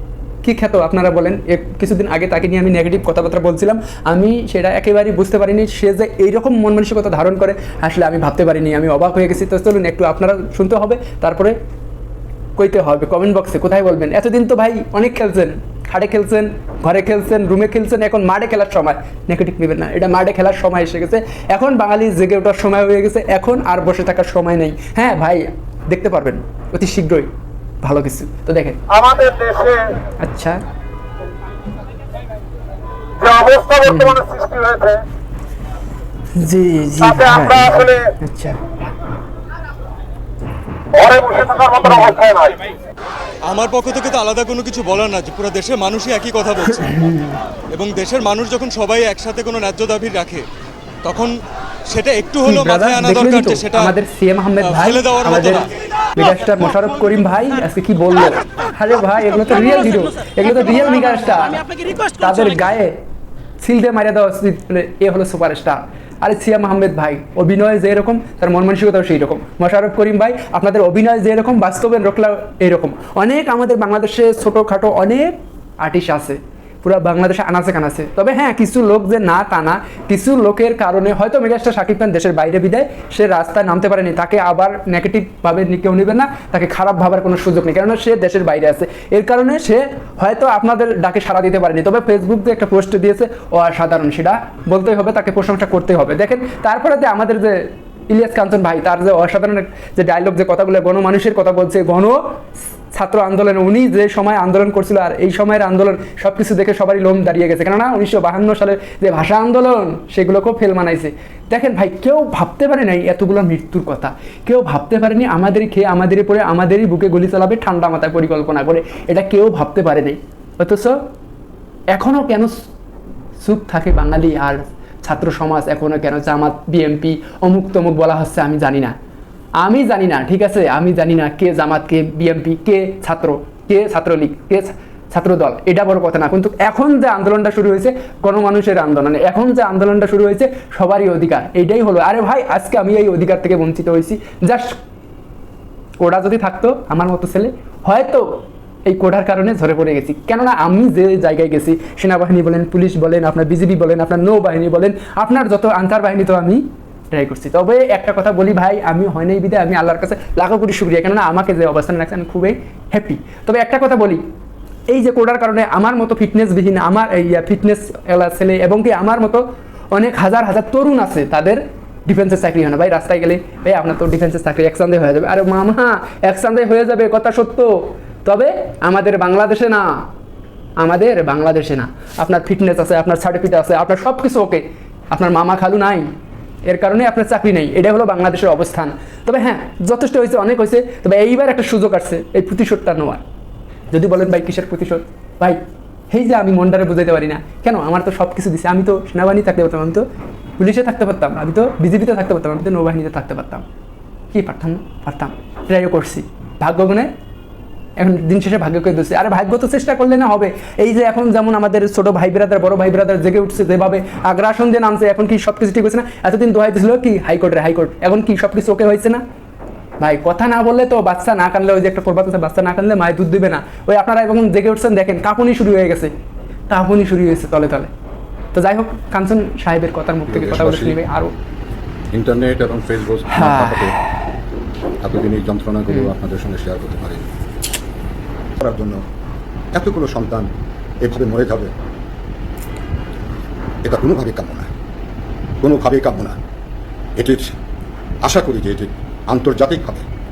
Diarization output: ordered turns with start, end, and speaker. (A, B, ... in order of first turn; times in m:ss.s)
0:00.4-0:11.6 A
0:12.6-0:27.3 A
0:27.8-0:29.1 A
0:29.0-0:29.9 B
0:30.2-0:30.6 A
0:33.2-0:35.0 B
0:33.8-0:34.3 A
0:36.3-0:38.6 A
0:41.0-0:41.8 B
0:41.7-0:42.4 A
0:43.4-0:47.0 C
0:46.7-0:47.4 A
0:47.7-0:50.4 C
0:51.0-0:51.3 C
0:51.9-0:53.9 C
0:52.4-0:55.6 A
0:54.6-0:55.6 C
0:56.2-1:03.0 A
1:03.6-1:42.2 A
1:42.9-2:01.0 A
2:01.9-2:02.7 A
2:03.4-2:08.9 A
2:09.6-2:24.8 A
2:26.0-2:44.2 A
2:44.9-3:00.0 A
3:00.8-3:06.1 A
3:06.6-3:13.2 A
3:13.9-3:15.6 A
3:16.1-3:20.0 A
3:20.6-3:23.6 A
3:24.3-3:27.1 A
3:28.0-3:39.2 A
3:40.0-3:46.1 A
3:46.7-3:47.9 A
3:48.5-3:51.3 A
3:50.3-3:50.9 B
3:52.1-3:53.9 B
3:52.3-3:53.1 D
3:53.3-3:54.0 A
3:55.0-3:56.8 B
3:55.1-3:57.2 D
3:58.6-3:59.0 D
3:59.7-4:00.5 D
4:01.0-4:01.7 D
4:03.8-4:04.7 D
4:05.6-4:06.4 D
4:07.2-4:07.5 D
4:08.2-4:10.0 D